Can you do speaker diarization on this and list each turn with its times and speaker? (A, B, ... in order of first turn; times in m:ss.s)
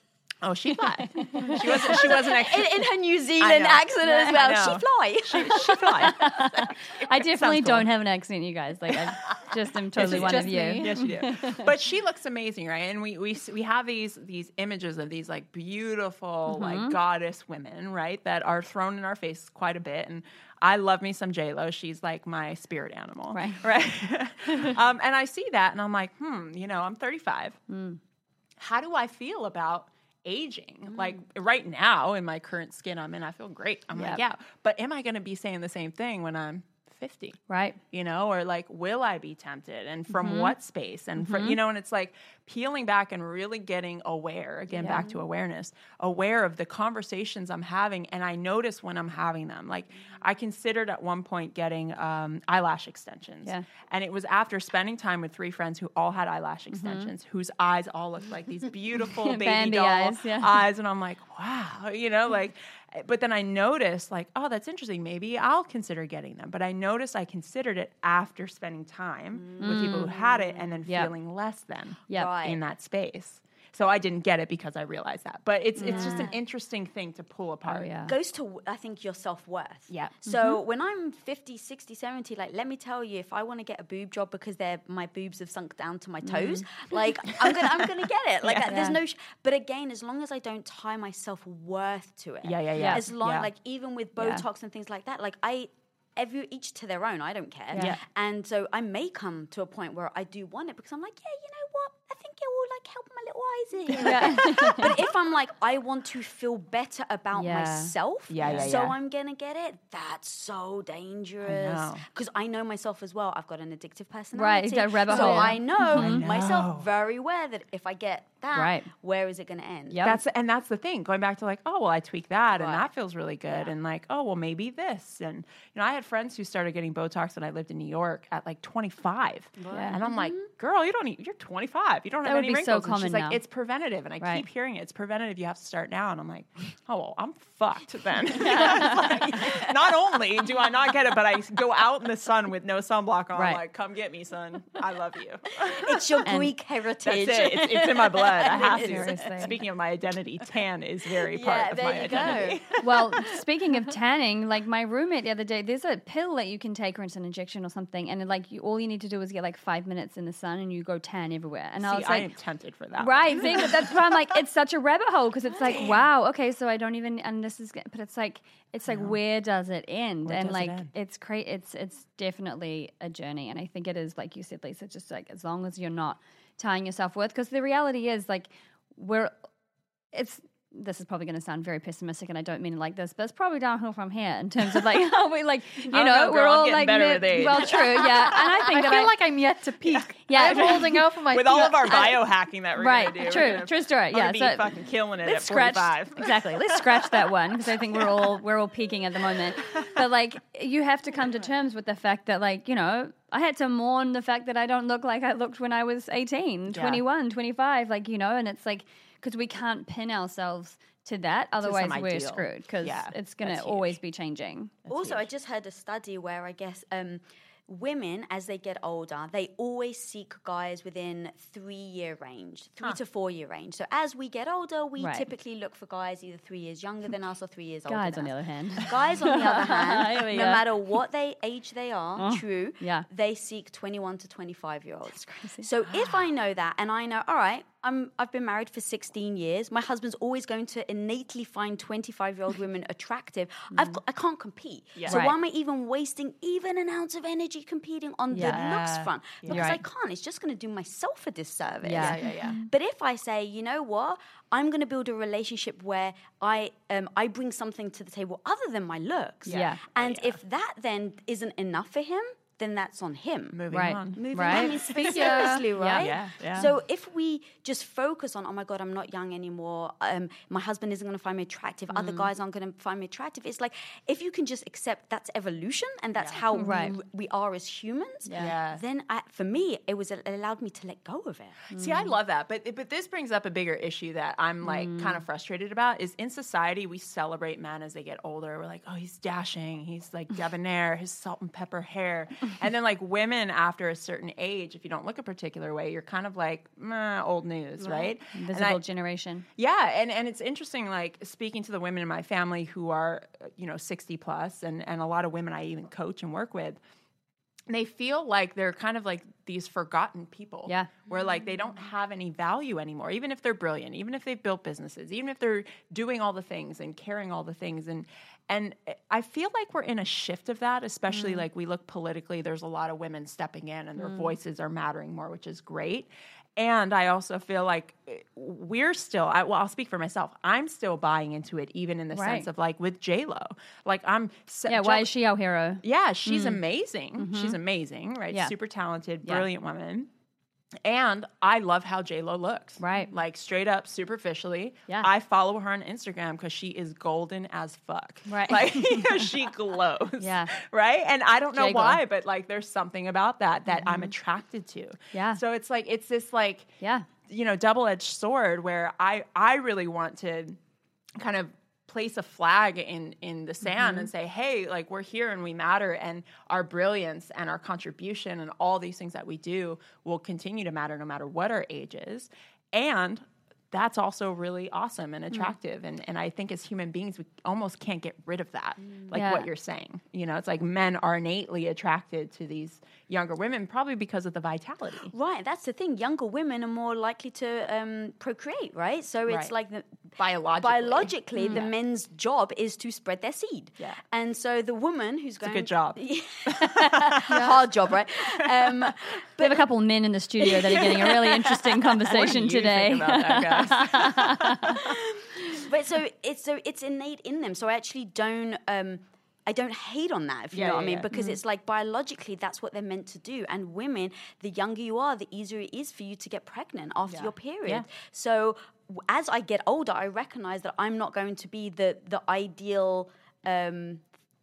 0:00.4-0:02.8 A
0:01.0-0:02.1 B
0:01.4-0:06.6 C
0:03.4-0:07.9 A
0:04.0-0:04.4 B
0:05.4-0:11.7 B
0:09.2-0:27.6 A
0:10.0-0:11.0 D
0:16.5-0:17.0 B
0:23.3-0:23.7 B
0:24.5-0:24.8 B
0:27.7-0:28.0 B
0:28.6-0:37.4 A
0:33.9-0:34.2 B
0:37.5-0:37.8 B
0:37.9-1:17.9 A
0:40.1-0:40.5 B
0:41.2-0:41.6 B
0:44.8-0:45.0 B
0:44.9-0:45.2 C
0:56.7-0:57.1 B
0:59.0-1:00.6 B
1:09.3-1:10.7 C
1:09.6-1:10.1 B
1:10.9-1:11.1 B
1:12.1-1:12.6 C
1:15.8-1:16.3 B
1:15.8-1:16.3 C
1:17.6-1:18.1 B
1:18.0-2:00.1 C
1:19.9-1:20.3 A
1:26.3-1:26.6 A
1:27.3-1:27.7 A
1:28.4-1:28.9 A
1:28.6-1:28.9 B
1:32.4-1:33.5 A
1:34.2-1:34.4 B
1:37.7-1:38.0 B
1:37.7-1:38.0 A
1:43.9-1:44.9 B
1:47.4-1:48.8 B
1:48.3-1:48.9 A
1:51.4-1:52.0 A
1:54.3-1:56.2 B
1:55.1-1:55.9 D
1:55.4-1:56.9 A
1:58.5-1:58.9 B
1:59.9-2:00.2 B
2:00.0-2:26.2 A
2:02.5-2:02.9 C
2:09.6-2:10.5 C
2:09.7-2:10.0 B
2:12.2-2:13.4 B
2:18.4-2:19.1 B
2:18.4-2:19.7 C
2:25.6-2:29.5 C
2:26.2-2:26.5 B
2:27.0-2:33.1 A
2:28.4-2:29.6 B
2:31.3-2:33.2 C
2:32.1-2:42.3 B
2:41.8-2:44.3 A
2:43.0-2:59.3 B
2:45.6-2:46.0 A
2:48.8-2:49.2 A
2:50.2-2:50.9 A
3:00.1-3:09.2 B
3:05.8-3:08.0 A
3:07.7-3:08.5 C
3:08.3-3:12.2 D
3:09.8-3:18.4 A
3:10.2-3:11.0 B
3:12.8-3:14.7 B
3:15.2-3:34.7 B
3:19.6-3:20.0 A
3:26.7-3:27.0 A
3:31.6-3:34.0 A
3:34.8-3:35.2 A
3:34.9-4:23.6 C
3:45.0-3:45.3 B
3:47.9-3:50.6 B
3:52.2-3:53.0 B
3:55.2-3:55.7 B
3:55.9-3:56.2 A
4:04.9-4:05.3 A
4:05.1-4:05.3 B
4:08.3-4:08.7 B
4:08.3-4:09.7 A
4:09.5-4:09.8 B
4:11.8-4:12.2 B
4:11.9-4:12.6 A
4:19.4-4:20.4 A
4:19.5-4:19.8 B
4:23.5-4:26.7 A
4:23.7-4:24.9 B
4:24.1-4:41.6 C
4:25.0-4:25.7 D
4:25.6-4:26.7 B
4:31.9-4:32.3 A
4:36.2-4:36.4 A
4:36.5-4:37.0 B
4:38.2-4:38.5 B
4:38.4-4:38.8 A
4:41.7-4:58.8 A
4:41.7-4:42.1 B
4:44.6-4:45.2 B
4:57.9-4:59.4 B
4:59.6-5:06.8 A
5:07.7-5:35.1 A
5:21.1-5:21.4 B
5:24.0-5:24.3 B
5:32.1-5:32.5 B
5:34.7-5:36.6 B
5:35.8-5:40.1 A
5:37.2-5:37.6 B
5:40.8-5:56.7 A
5:42.8-5:43.1 B
5:48.3-5:49.4 B
5:50.2-5:50.5 B
5:51.5-5:52.0 B
5:53.7-5:54.1 B
5:55.1-5:55.4 B
5:56.8-5:57.1 B
5:57.2-6:00.6 A
6:01.2-6:25.1 A
6:03.6-6:04.1 B
6:19.1-6:19.5 B
6:25.1-6:39.6 C
6:29.3-6:29.5 A
6:30.2-6:31.6 A
6:31.4-6:31.7 B
6:35.4-6:39.1 A
6:37.3-6:37.6 D
6:39.4-6:44.8 B
6:40.4-6:41.6 C
6:40.4-6:45.0 A
6:44.7-7:04.0 C
6:50.5-6:51.1 A
6:51.1-6:51.4 B
6:57.1-6:57.9 A